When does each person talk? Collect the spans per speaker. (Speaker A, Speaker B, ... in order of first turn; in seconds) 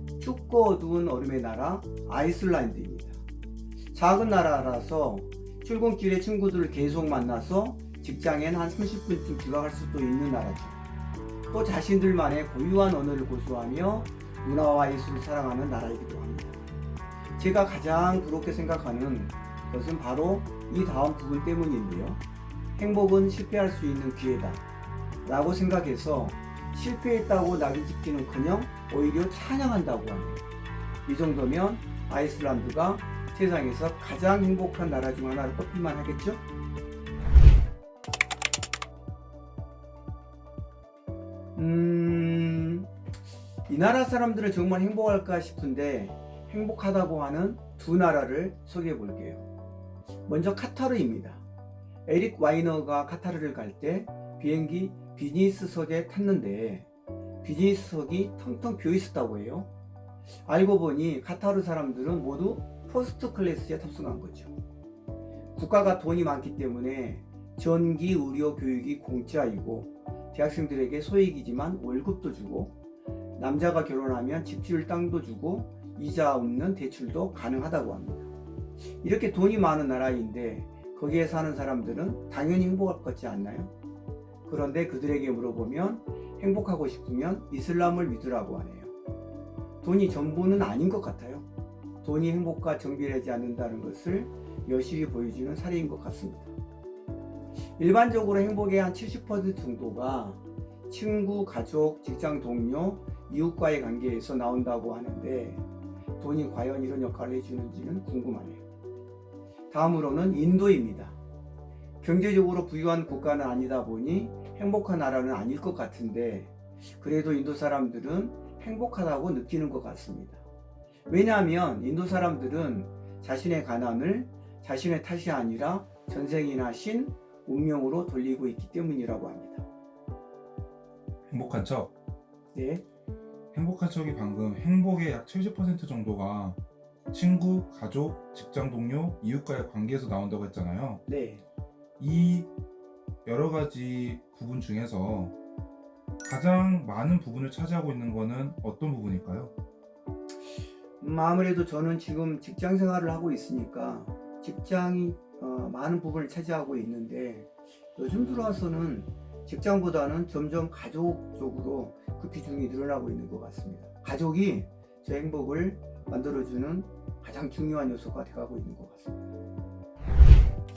Speaker A: 0.2-3.2, 3.9-10.8, 11.5-16.6, 17.4-22.2, 22.8-24.6, 25.2-30.5, 31.1-36.4, 41.6-42.9, 43.7-49.4, 50.3-51.4, 52.1-56.9, 57.4-59.7, 60.5-64.5, 65.5-72.7, 73.4-78.3, 79.0-83.7, 84.5-88.9, 89.8-91.5, 92.0-96.5, 97.8-105.6, 106.2-108.6, 109.7-111.2, 112.0-120.4, 121.1-129.7, 132.5-132.8, 141.1-141.4, 151.0-169.2
Speaker B: 131.3-131.9, 133.5-136.6, 137.1-141.0, 142.0-142.5, 143.2-145.3, 146.2-149.5